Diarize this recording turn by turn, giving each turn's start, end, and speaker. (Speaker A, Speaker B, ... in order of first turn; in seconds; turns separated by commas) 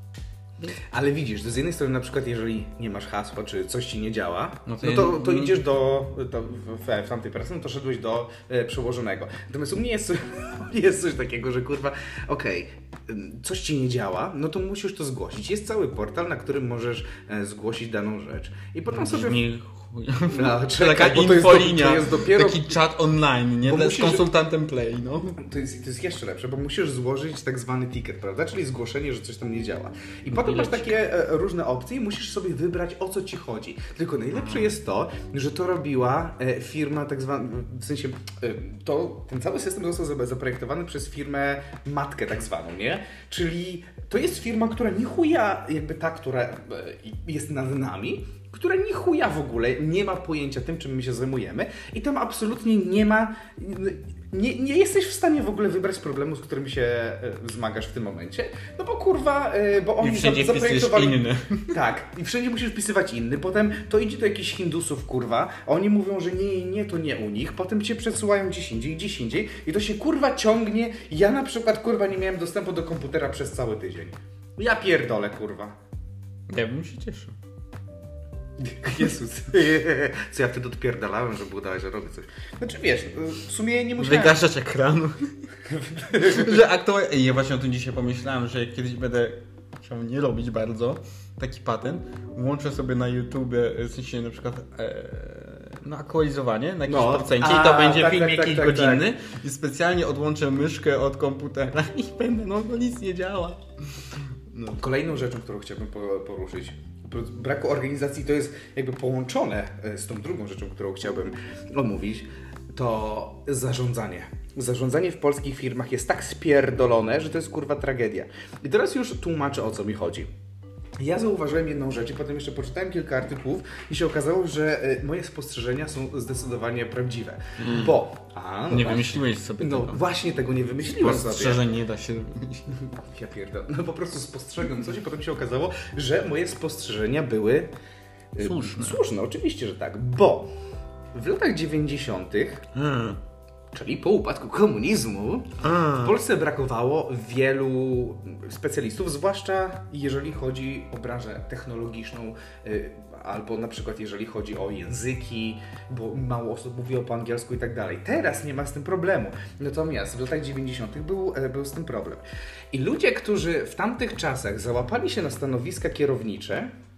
Speaker A: 0.8-19.4, Speaker B: 4.7-5.6, Speaker B: 18.9-25.4, Speaker A: 20.3-22.8, Speaker A: 23.6-24.3, Speaker A: 25.4-75.8, Speaker B: 30.3-30.9, Speaker B: 34.4-34.7, Speaker B: 60.0-61.8, Speaker B: 76.5-77.3, Speaker A: 78.6-84.4, Speaker B: 84.0-85.5, Speaker A: 85.7-86.7, Speaker B: 86.1-103.6, Speaker A: 96.8-99.1, Speaker B: 104.5-104.8, Speaker A: 104.7-120.3, Speaker A: 121.0-131.6, Speaker B: 127.6-128.0, Speaker B: 128.7-130.0, Speaker B: 130.8-132.8, Speaker A: 132.7-137.7, Speaker A: 138.3-140.5, Speaker B: 138.4-139.0, Speaker A: 141.1-142.7, Speaker B: 142.7-143.2, Speaker A: 143.7-166.7, Speaker B: 145.6-146.2